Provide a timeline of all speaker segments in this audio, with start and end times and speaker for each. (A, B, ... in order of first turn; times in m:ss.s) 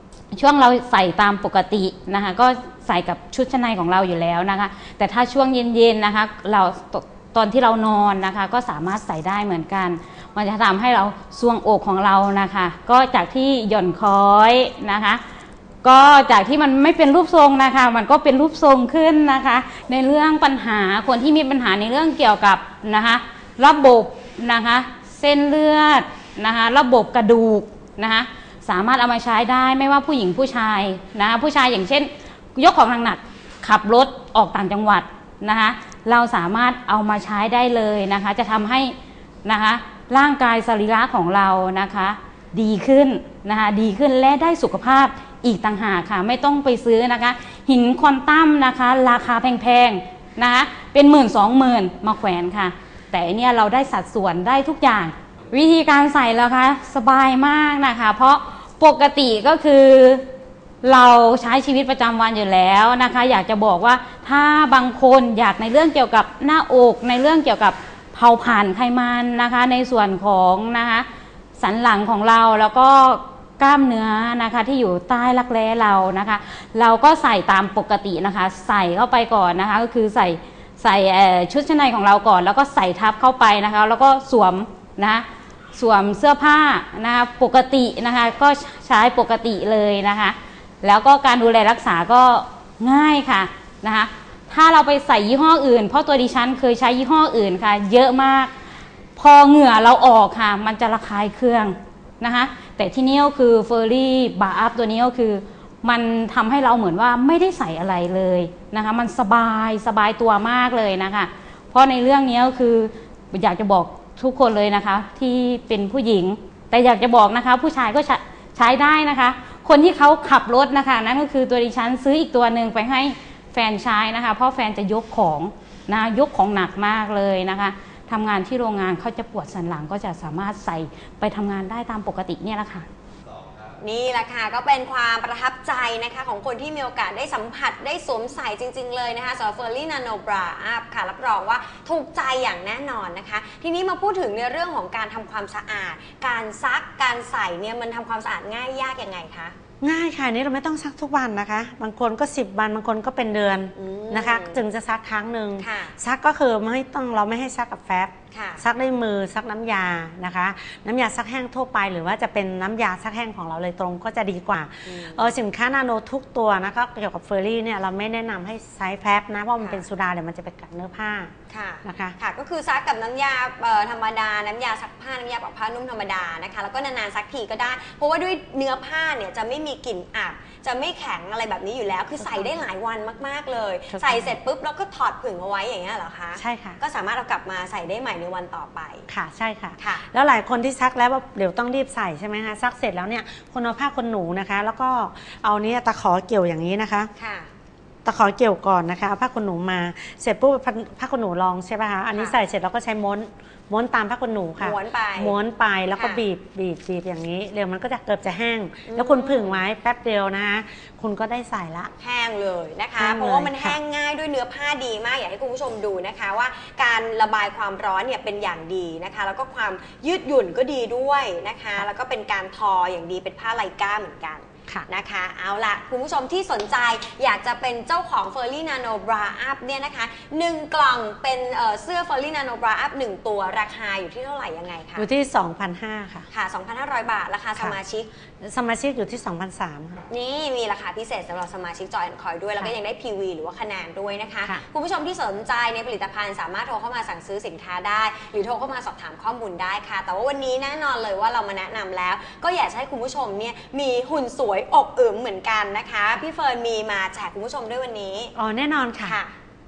0:00.3-0:15.2 A
0:15.8-1:00.2 A
1:00.8-1:11.0 A
1:11.6-1:25.2 A
1:25.7-1:38.5 A
1:39.2-2:12.8 A
2:13.8-2:29.6 B
2:29.8-2:51.3 C
2:33.8-2:34.6 B
2:35.6-2:36.0 B
2:38.3-2:38.6 B
2:44.8-2:45.3 B
2:51.5-3:09.1 B
2:51.8-2:52.2 C
3:02.2-3:02.5 C
3:03.9-3:04.3 C
3:06.4-3:06.8 C
3:09.1-3:17.1 C
3:09.8-3:10.1 B
3:17.2-3:17.5 B
3:18.0-3:31.9 C
3:24.6-3:25.4 B
3:25.9-3:26.2 B
3:28.9-3:29.6 B
3:32.0-3:55.0 B
3:33.0-3:33.8 C
3:55.0-3:56.3 C
3:56.3-3:58.1 B
3:58.4-4:00.0 C
4:00.1-4:18.3 B
4:18.4-4:19.2 C
4:19.0-4:19.3 B